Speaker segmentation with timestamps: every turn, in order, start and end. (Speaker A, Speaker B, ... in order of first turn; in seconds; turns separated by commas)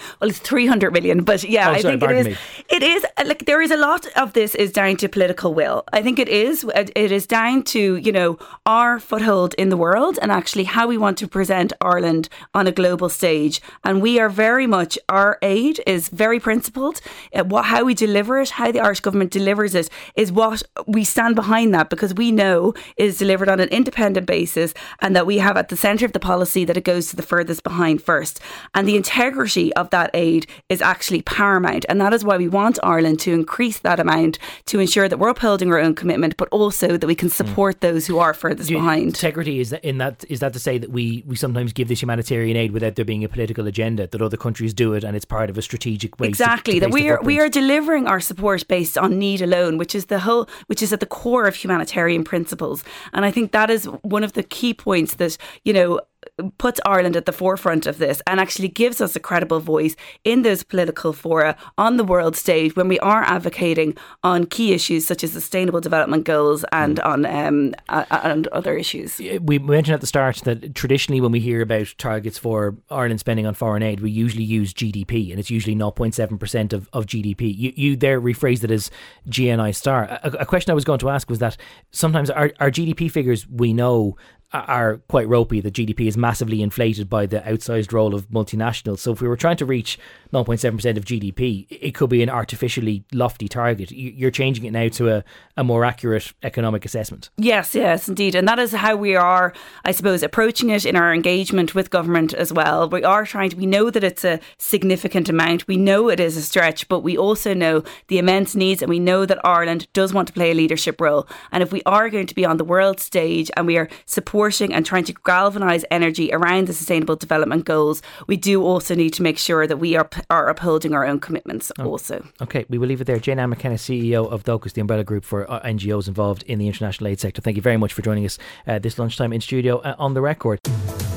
Speaker A: 0.2-39.2, Speaker B: 1.6-2.4, Speaker B: 38.6-47.4, Speaker A: 46.2-69.2, Speaker B: 69.2-97.3, Speaker A: 97.4-122.3, Speaker B: 122.4-130.6